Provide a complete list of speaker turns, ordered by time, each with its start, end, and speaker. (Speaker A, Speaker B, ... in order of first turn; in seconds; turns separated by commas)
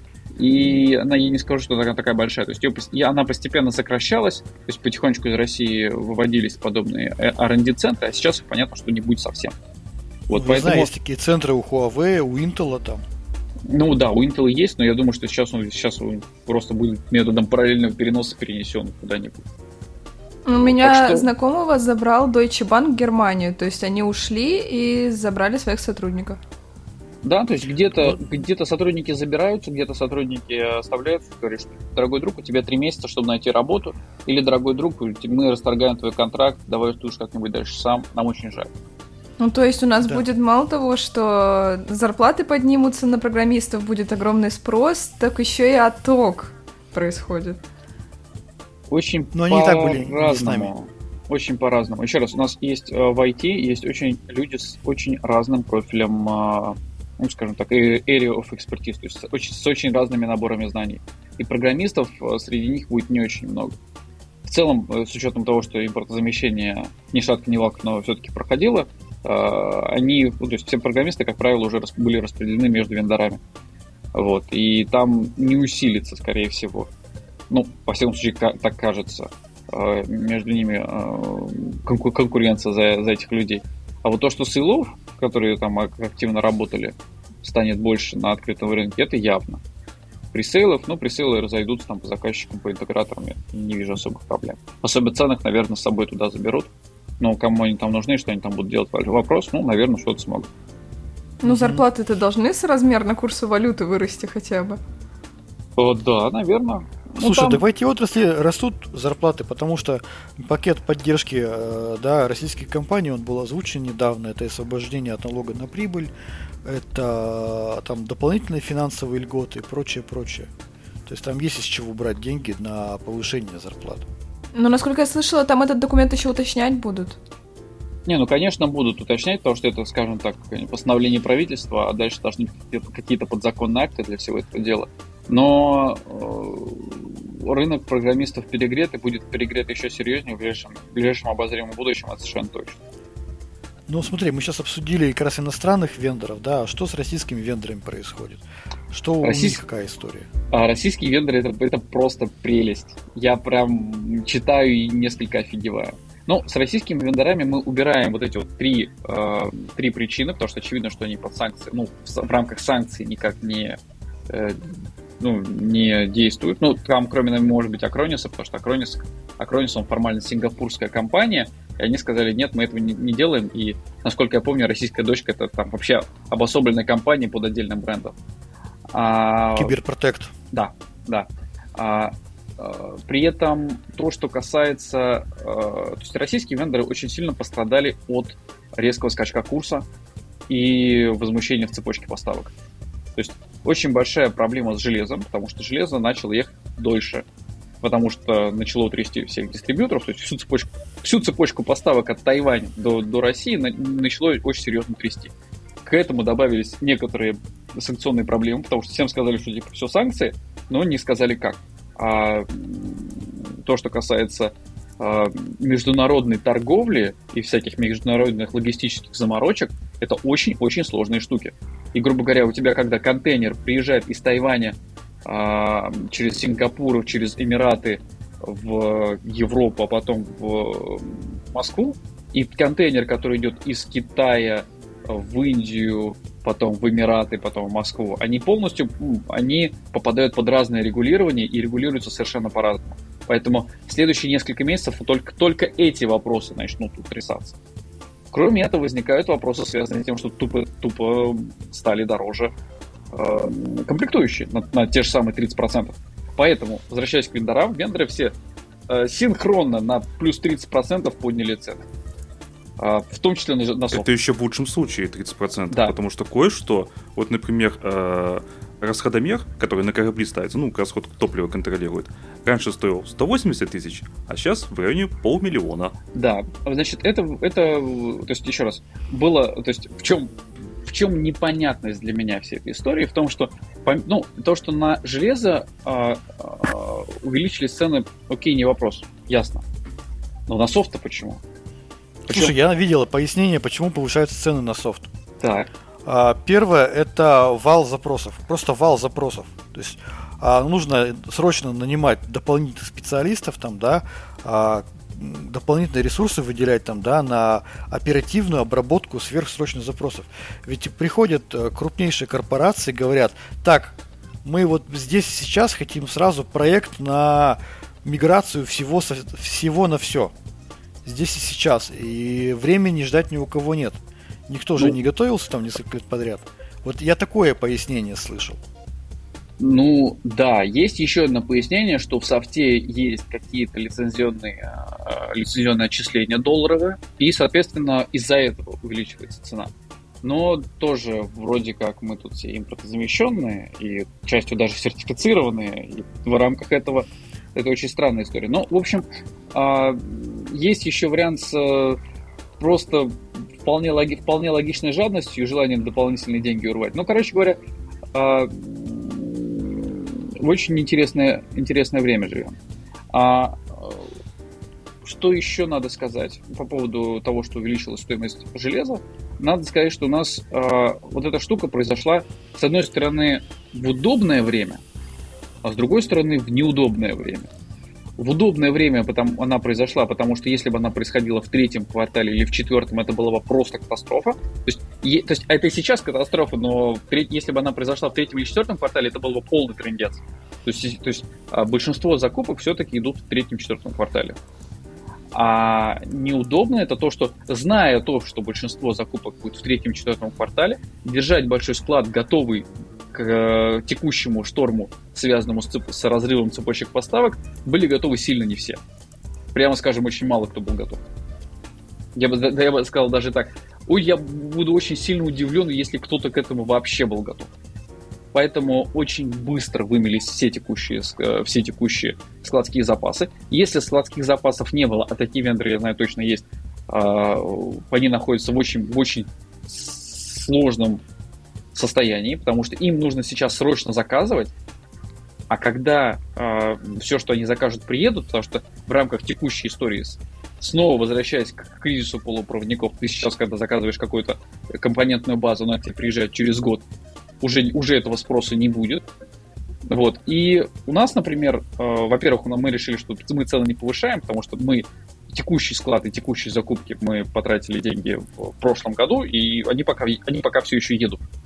Speaker A: 0.3-9.5, Speaker A: 10.3-10.9, Speaker B: 10.3-13.0, Speaker A: 13.7-19.4, Speaker C: 20.4-26.4, Speaker A: 20.5-21.3, Speaker A: 27.2-38.7, Speaker C: 39.4-47.6, Speaker A: 48.9-63.7, Speaker B: 49.3-50.7, Speaker A: 64.4-73.4, Speaker A: 74.1-76.9, Speaker A: 77.5-89.6, Speaker A: 90.3-100.5, Speaker C: 101.4-104.8, Speaker B: 101.4-101.8, Speaker A: 105.8-107.6, Speaker B: 107.2-116.1, Speaker B: 116.6-120.5, Speaker B: 121.0-124.0, Speaker C: 124.5-127.2, Speaker A: 128.1-142.8, Speaker B: 143.9-150.2, Speaker A: 149.2-149.6, Speaker A: 150.5-163.8, Speaker A: 164.3-178.1, Speaker A: 178.9-179.7, Speaker B: 179.5-180.3, Speaker A: 180.5-189.8, Speaker A: 190.5-192.5, Speaker A: 193.2-197.2, Speaker A: 197.8-205.3, Speaker A: 205.8-247.6, Speaker A: 248.3-252.5, Speaker A: 253.1-258.3, Speaker A: 258.9-261.9, Speaker A: 262.8-264.1, Speaker D: 263.9-275.9, Speaker A: 276.1-289.6, Speaker A: 290.5-291.4, Speaker A: 292.2-292.5, Speaker B: 292.3-295.1, Speaker A: 295.4-295.7, Speaker B: 296.0-320.3, Speaker B: 321.0-328.6, Speaker A: 329.6-339.7, Speaker A: 340.2-352.0, Speaker A: 352.6-357.6, Speaker A: 358.1-362.6, Speaker A: 363.1-364.1, Speaker A: 365.0-374.8, Speaker A: 375.6-377.5, Speaker A: 378.2-394.4, Speaker A: 395.3-408.8, Speaker A: 409.5-411.0, Speaker A: 412.1-417.5, Speaker A: 418.3-431.0, Speaker A: 431.7-434.5, Speaker A: 435.5-446.8, Speaker A: 447.4-449.0, Speaker A: 449.9-461.2